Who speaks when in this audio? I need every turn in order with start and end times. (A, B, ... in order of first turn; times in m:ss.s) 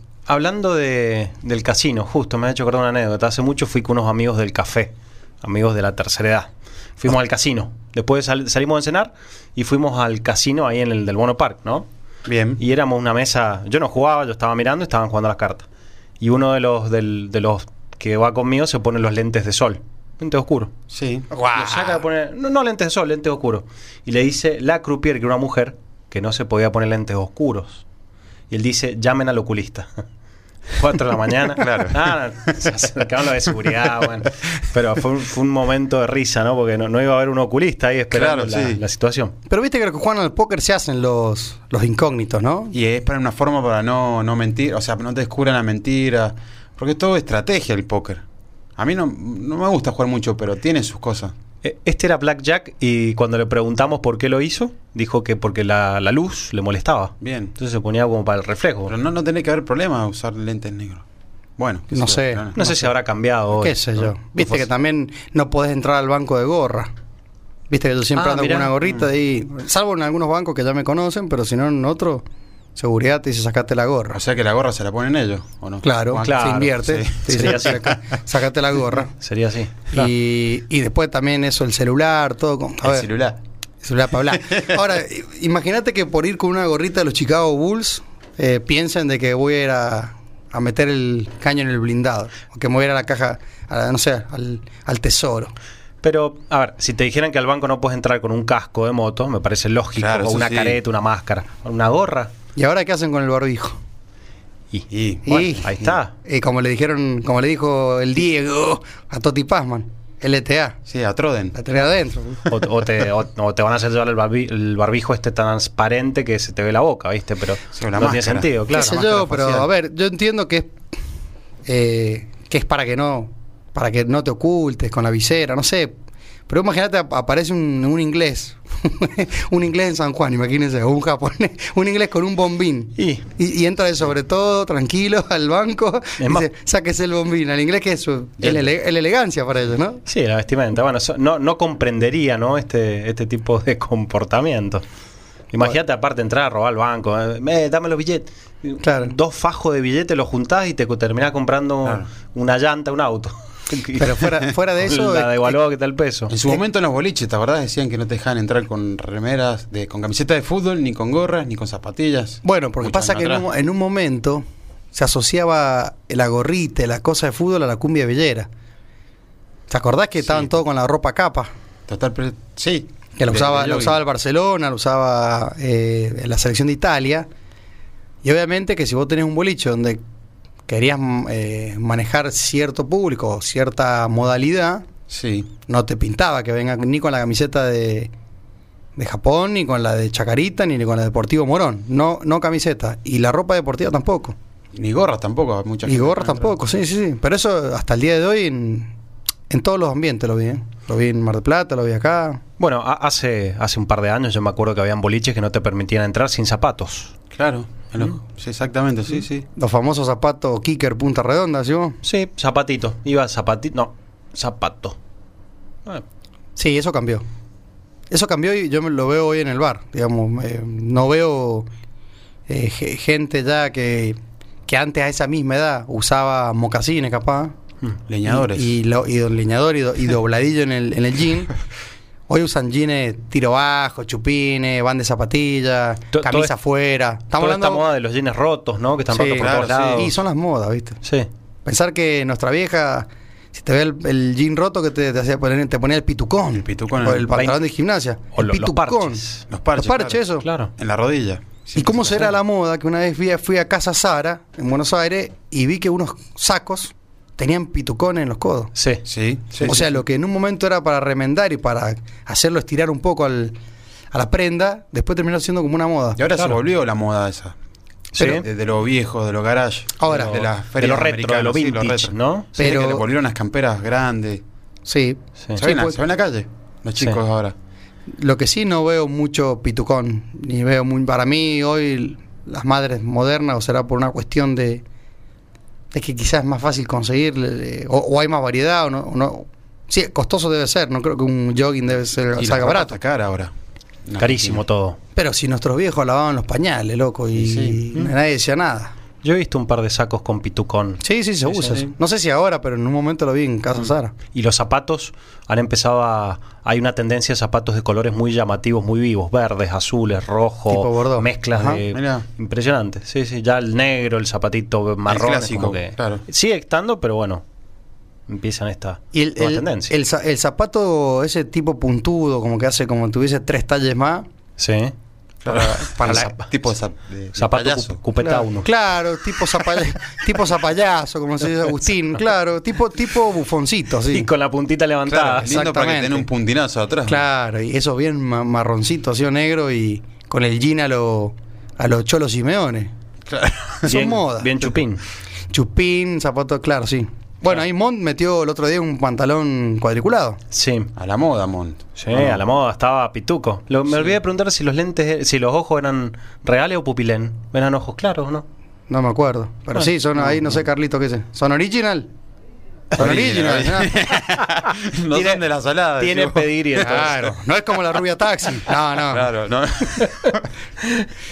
0:00.3-0:11.9 A
0:12.3-0:12.6 B
0:12.6-0:15.7 A
0:16.2-0:20.7 A
0:20.9-0:21.3 B
0:21.3-0:22.0 C
0:21.5-0:27.8 A
0:28.5-0:30.0 A
0:30.7-0:39.3 A
0:31.6-0:32.6 B
0:38.1-0:38.8 B
0:39.5-0:42.8 C
0:42.7-0:48.2 B
0:48.8-0:51.3 B
0:51.6-0:58.9 A
0:57.2-0:57.6 B
0:58.9-1:01.0 B
1:01.6-1:02.7 B
1:01.9-1:02.8 C
1:02.6-1:03.9 A
1:03.6-1:06.9 C
1:07.7-1:12.2 C
1:08.2-1:08.7 A
1:12.8-1:14.2 C
1:14.1-1:17.8 B
1:15.8-1:19.1 C
1:16.2-1:18.0 A
1:19.2-1:20.1 A
1:19.9-1:23.1 C
1:22.8-1:23.4 B
1:23.8-1:35.5 C
1:36.0-1:42.3 A
1:40.0-1:40.8 B
1:42.6-1:43.8 C
1:44.7-1:46.1 A
1:44.9-1:46.0 B
1:45.3-1:45.7 C
1:46.2-1:50.8 C
1:50.9-1:51.6 B
1:51.5-1:52.5 C
1:52.5-1:59.0 A
1:57.7-1:59.7 B
1:58.7-2:00.8 C
2:01.7-2:05.9 C
2:06.5-2:20.0 C
2:13.0-2:13.2 A
2:16.2-2:16.5 A
2:18.4-2:18.7 B
2:20.1-2:24.8 A
2:25.5-2:36.4 A
2:28.8-2:29.1 C
2:34.0-2:35.6 C
2:36.3-2:43.5 B
2:42.4-2:48.5 C
2:49.7-2:51.5 C
2:51.9-2:54.0 B
2:53.2-2:57.3 C
2:58.2-3:00.0 C
3:00.7-3:04.9 C
3:05.1-3:05.5 B
3:05.7-3:08.1 C
3:09.0-3:14.4 C
3:14.7-3:16.6 B
3:15.9-3:18.9 C
3:19.5-3:22.4 C
3:22.6-3:27.1 A
3:27.3-3:29.5 B
3:29.6-3:32.0 C
3:32.0-3:35.0 A
3:36.6-3:37.2 C
3:38.1-3:41.7 C
3:42.5-3:47.5 C
3:48.1-3:48.7 B
3:48.3-3:51.5 C
3:52.3-3:57.8 C
3:56.1-3:56.5 A
3:57.4-4:00.1 A
3:59.1-4:01.0 C
3:59.4-4:00.1 B
4:01.6-4:09.2 C
4:06.6-4:07.3 B
4:07.3-4:07.6 A
4:08.4-4:09.4 A
4:09.5-4:10.2 B
4:09.8-4:10.5 C
4:10.4-4:10.7 A
4:10.8-4:12.3 B
4:11.8-4:18.7 C
4:18.8-4:19.0 A
4:19.0-4:20.0 B
4:19.6-4:23.6 C
4:24.1-4:26.2 C
4:26.2-4:27.6 B
4:28.2-4:28.4 A
4:28.2-4:34.4 B
4:30.0-4:30.4 C
4:30.1-4:32.5 A
4:32.6-4:33.1 C
4:34.9-4:36.0 C
4:35.6-4:37.6 B
4:38.1-4:44.8 C
4:45.9-4:53.0 C
4:52.4-4:53.5 B
4:54.1-4:54.6 B
4:54.2-4:55.0 A
4:55.2-4:58.9 C
4:57.4-4:57.8 B
4:59.2-5:01.0 A
5:01.0-5:04.1 C
5:01.6-5:01.8 A
5:04.3-5:17.4 A
5:10.7-5:11.8 C
5:11.9-5:12.3 B
5:15.1-5:16.2 B
5:18.3-5:19.9 A
5:19.1-5:24.3 C
5:24.6-5:24.9 A
5:25.4-5:28.0 B
5:25.5-5:26.3 C
5:26.0-5:26.3 A
5:27.4-5:28.7 A
5:28.2-5:34.3 C
5:34.1-5:35.5 A
5:35.1-5:37.2 B
5:35.4-5:36.3 C
5:37.1-5:42.9 C
5:43.3-5:43.9 B
5:43.8-5:44.5 C
5:43.8-5:45.0 A
5:45.5-5:50.4 C
5:50.5-5:50.9 A
5:51.0-5:52.4 B
5:52.0-5:58.5 A
5:58.9-6:02.1 C
6:02.9-6:04.0 C
6:02.9-6:07.2 B
6:05.1-6:05.4 A
6:06.0-6:07.2 A
6:06.8-6:09.3 C
6:09.1-6:10.4 B